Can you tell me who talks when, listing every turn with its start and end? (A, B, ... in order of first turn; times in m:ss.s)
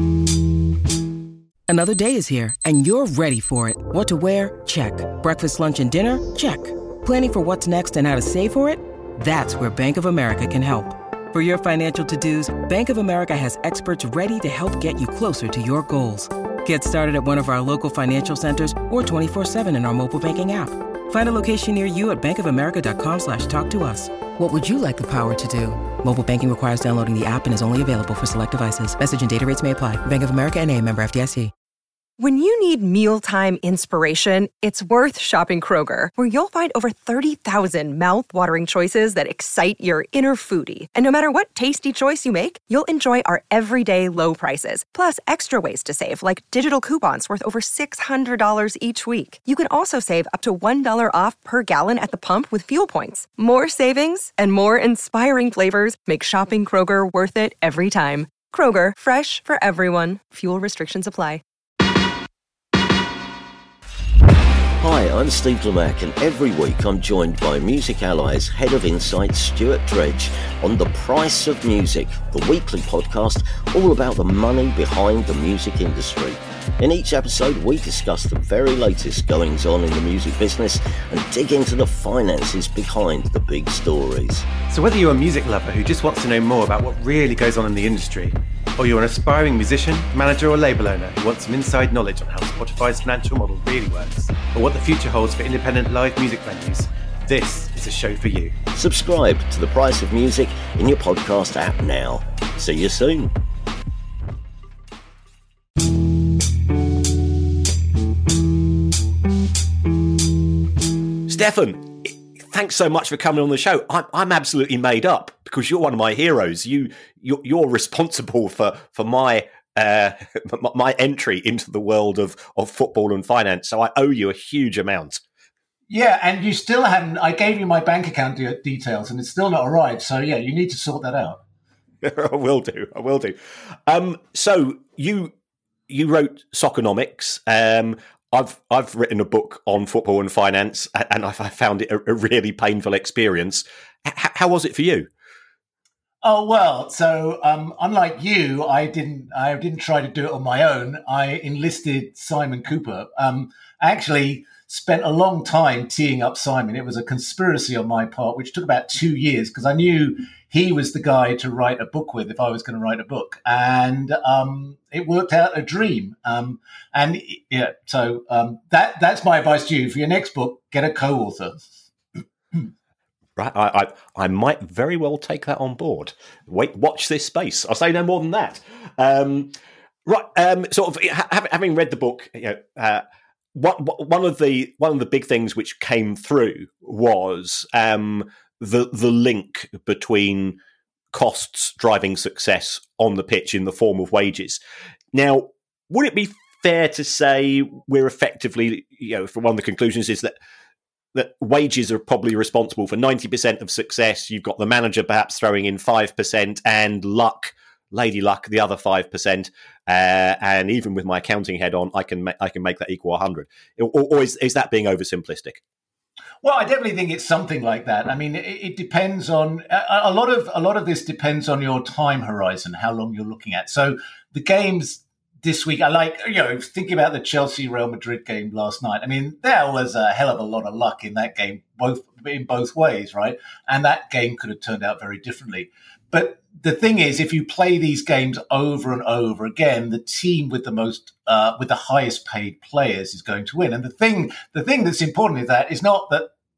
0:01.7-0:31.5 A
0:32.2-1:01.4 B
1:04.8-1:24.5 C
1:24.7-1:38.6 D
1:38.7-1:43.3 C
1:51.3-2:05.2 E
2:05.9-2:11.4 F
2:12.0-2:15.3 E
2:15.9-2:25.1 E
2:26.2-2:51.6 F
2:53.4-3:03.0 E
3:03.5-3:10.6 E
3:11.1-3:14.6 E
3:15.1-3:20.4 E
3:21.1-3:35.6 E
3:36.4-4:06.3 F